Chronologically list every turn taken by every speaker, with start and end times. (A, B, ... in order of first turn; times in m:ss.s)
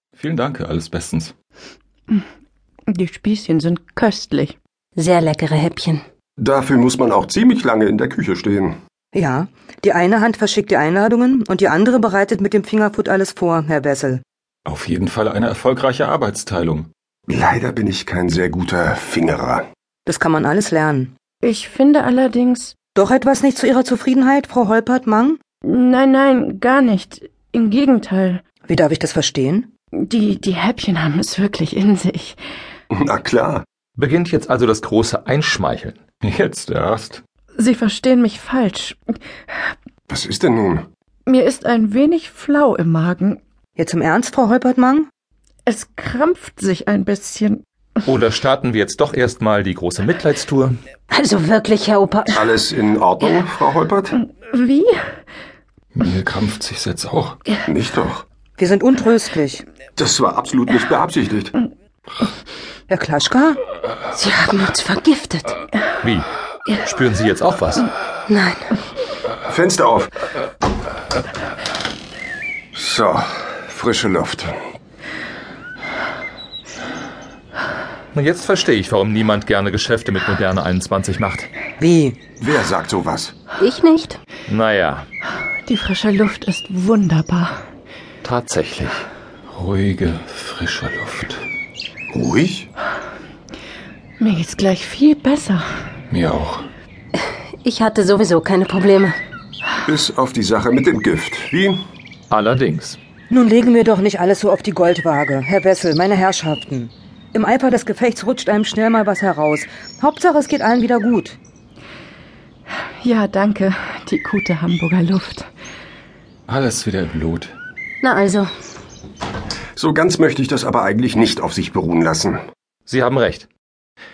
0:00.2-0:01.4 A
0:02.9-0:04.6 B
0:05.0-0:06.0 C
0:06.4-0:08.8 D
0:09.1-0:14.2 E
0:14.7-0:16.9 A
0:17.3-0:19.6 D
0:20.1-0:21.1 E
0:21.4-0:22.7 B
0:23.0-0:25.4 E
0:25.6-0:28.4 B
0:28.7-0:29.7 E
0:30.0-0:32.4 B
0:32.9-0:33.6 D
0:34.0-0:36.0 F
0:36.2-0:37.2 A
0:37.6-0:39.0 B
0:40.1-0:40.9 D
0:41.3-0:43.4 B
0:43.8-0:45.1 E
0:45.7-0:47.6 B
0:48.1-0:50.8 F
0:51.1-0:52.4 C
0:52.3-0:54.2 D
0:54.4-0:55.0 B
0:56.0-0:57.4 A
0:57.6-0:58.2 D
0:58.6-0:59.6 E
1:00.0-1:01.5 D
1:02.9-1:03.6 E
1:04.1-1:05.6 C
1:06.0-1:07.9 F
1:08.3-1:08.7 C
1:09.5-1:10.1 D
1:12.7-1:14.6 D
1:18.1-1:21.5 F
1:21.8-1:22.2 E
1:22.4-1:23.3 D
1:23.6-1:24.2 C
1:24.5-1:25.1 F
1:25.7-1:27.6 B
1:28.2-1:29.1 F
1:29.5-1:31.4 A
1:32.1-1:32.7 D
1:34.2-1:35.7 B
1:36.2-1:36.7 A
1:37.2-1:39.2 C
1:39.9-1:41.8 D
1:42.3-1:43.0 F
1:43.3-1:51.4 E
1:53.0-1:55.5 B
1:56.5-1:57.6 A
1:58.0-1:58.5 C
1:59.8-2:02.4 D
2:02.9-2:03.5 F